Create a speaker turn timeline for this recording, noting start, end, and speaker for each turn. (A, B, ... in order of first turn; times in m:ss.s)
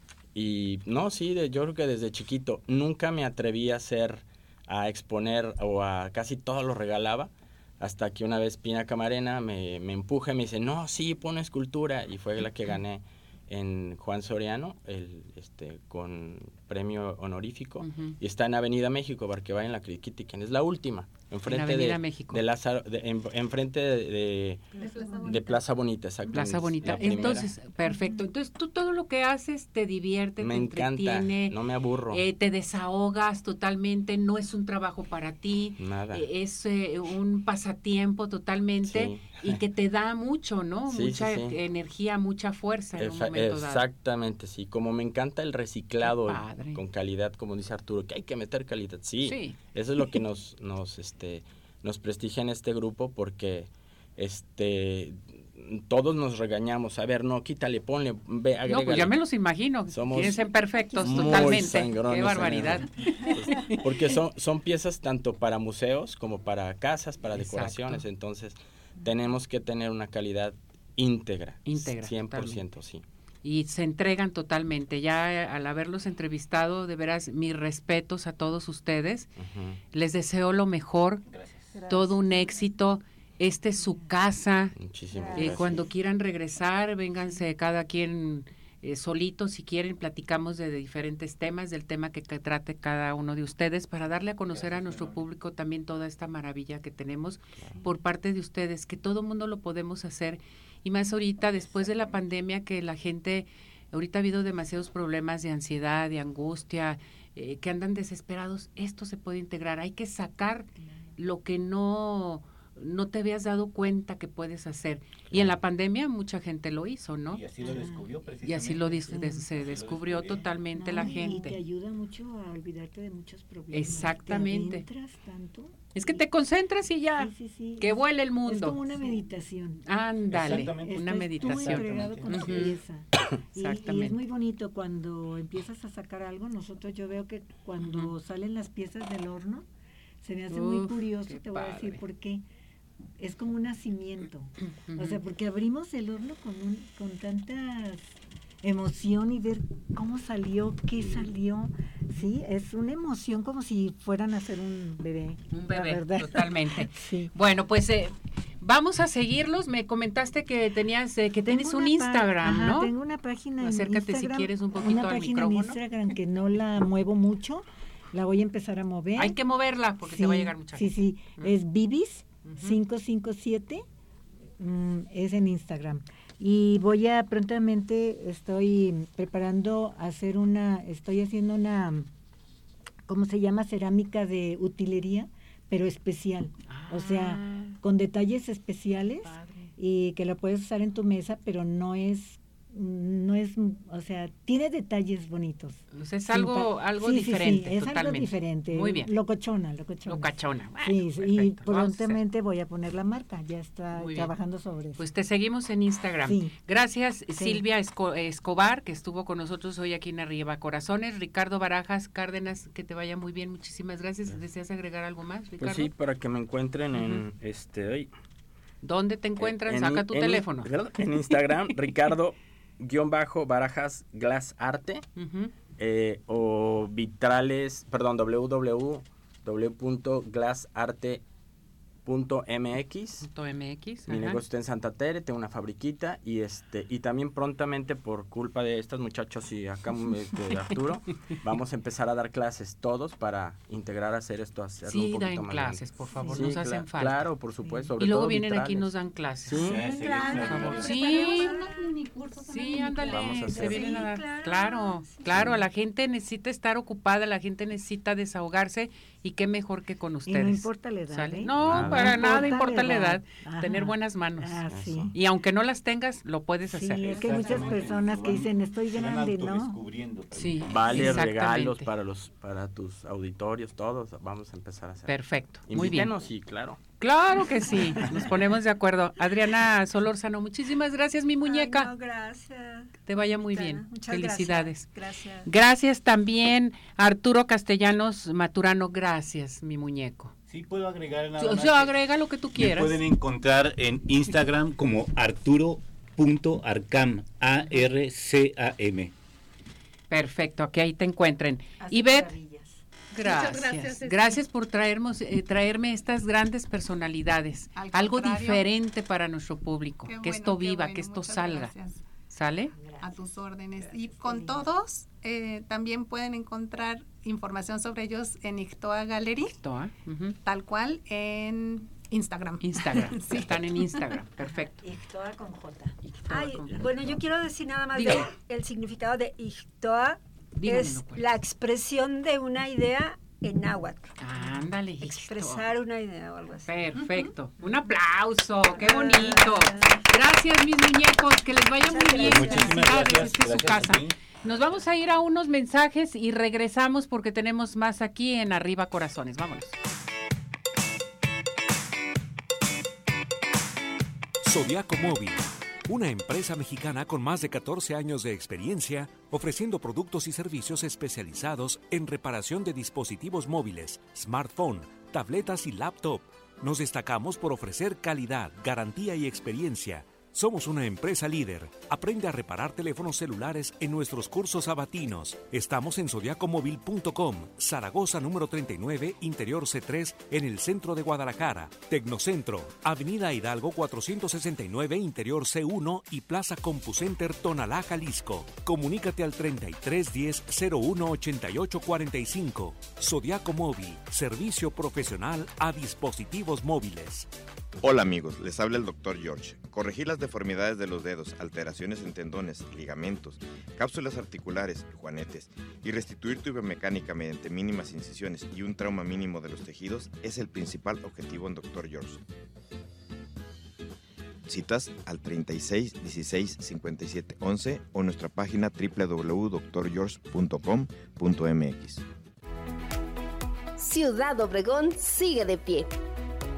0:00.4-0:24.7 A
0:17.8-0:18.2 B
0:21.5-0:22.4 B
0:24.7-0:25.6 C
0:25.3-0:27.5 A
0:26.3-0:31.5 B
0:30.4-0:32.2 A
0:32.1-0:43.8 B
0:35.8-0:36.3 A
0:38.8-0:39.6 A
0:40.9-0:41.6 A
0:43.0-0:59.2 A
0:46.0-0:46.8 B
0:49.2-0:49.6 B
0:58.7-1:03.8 B
0:59.9-1:00.4 A
1:00.9-1:01.8 D
1:01.0-1:13.0 A
1:07.4-1:08.0 B
1:11.6-1:12.6 B
1:13.4-1:19.3 B
1:19.4-1:19.8 A
1:19.9-1:21.2 B
1:21.3-1:21.7 E
1:21.8-1:22.1 C
1:21.9-1:24.8 B
1:24.8-1:25.9 A
1:25.3-1:57.4 B
1:34.6-1:35.1 E
1:57.3-2:01.1 E
1:57.6-1:58.1 D
1:58.4-2:01.6 B
1:59.1-1:59.4 D
2:00.7-2:06.2 D
2:03.7-2:04.9 B
2:06.0-2:08.8 B
2:07.2-2:09.8 D
2:09.9-2:12.8 B
2:10.3-2:12.8 E
2:10.4-2:19.7 D
2:13.6-2:14.2 B
2:17.8-2:18.1 B
2:20.2-2:22.4 D
2:20.5-2:22.0 B
2:23.2-2:37.3 D
2:24.6-2:25.2 B
2:35.5-2:42.9 B
2:41.5-2:49.4 D
2:43.6-2:45.8 B
2:49.2-2:51.6 B
2:50.0-2:53.8 D
2:52.4-2:52.8 B
2:54.6-3:02.1 D
3:03.1-3:25.0 D
3:06.7-3:07.8 B
3:09.2-3:09.7 B
3:15.9-3:19.1 B
3:20.0-3:22.2 B
3:24.0-3:24.3 B
3:25.0-3:35.9 B
3:26.2-3:26.6 D
3:27.4-3:27.6 D
3:35.6-3:38.1 A
3:37.0-3:37.2 B
3:38.8-3:40.7 B
3:39.4-3:45.0 A
3:45.2-3:45.5 B
3:45.8-3:51.2 A
3:52.0-3:53.3 A
3:53.2-3:54.4 B
3:54.1-4:08.9 A
4:04.8-4:07.3 B
4:08.0-4:09.7 B
4:09.4-4:09.8 A
4:09.6-4:10.9 E
4:09.9-4:14.1 C
4:10.0-4:11.9 F
4:10.4-4:11.6 B
4:12.5-4:24.6 B
4:13.1-4:13.9 A
4:13.6-4:15.4 F
4:20.2-4:25.2 D
4:21.6-4:22.1 E
4:21.6-4:22.5 A
4:24.7-4:25.1 A
4:25.1-4:27.6 B
4:26.7-4:29.8 D
4:27.0-4:31.2 E
4:30.3-4:31.9 B
4:30.7-4:36.8 A
4:35.1-4:36.1 B
4:37.0-4:41.9 B
4:37.9-4:38.2 A
4:41.4-4:45.5 F
4:43.1-4:44.9 B
4:45.4-4:50.3 B
4:50.5-4:52.0 E
4:51.4-4:53.0 B
4:52.5-4:59.1 E
5:00.1-5:02.3 B
5:01.8-5:02.8 D
5:03.1-5:11.7 B
5:03.2-5:04.4 C
5:07.8-5:08.7 C
5:10.0-5:12.0 C
5:12.3-5:12.7 B
5:12.7-5:13.2 D
5:13.0-5:19.5 C
5:13.8-5:14.7 D
5:19.4-5:20.4 B
5:20.4-5:24.2 C
5:22.6-5:24.8 B
5:24.4-5:26.0 D
5:26.0-5:27.2 B
5:26.3-5:34.5 F
5:27.9-5:28.3 B
5:30.6-5:31.3 B
5:34.2-5:35.7 B
5:35.0-5:36.7 F
5:36.7-5:49.8 B
5:38.7-5:40.0 F
5:41.8-5:43.3 F
5:42.2-5:44.3 E
5:54.4-6:37.3 G
6:37.8-6:52.2 H
6:54.5-7:02.0 H
7:03.8-7:05.9 I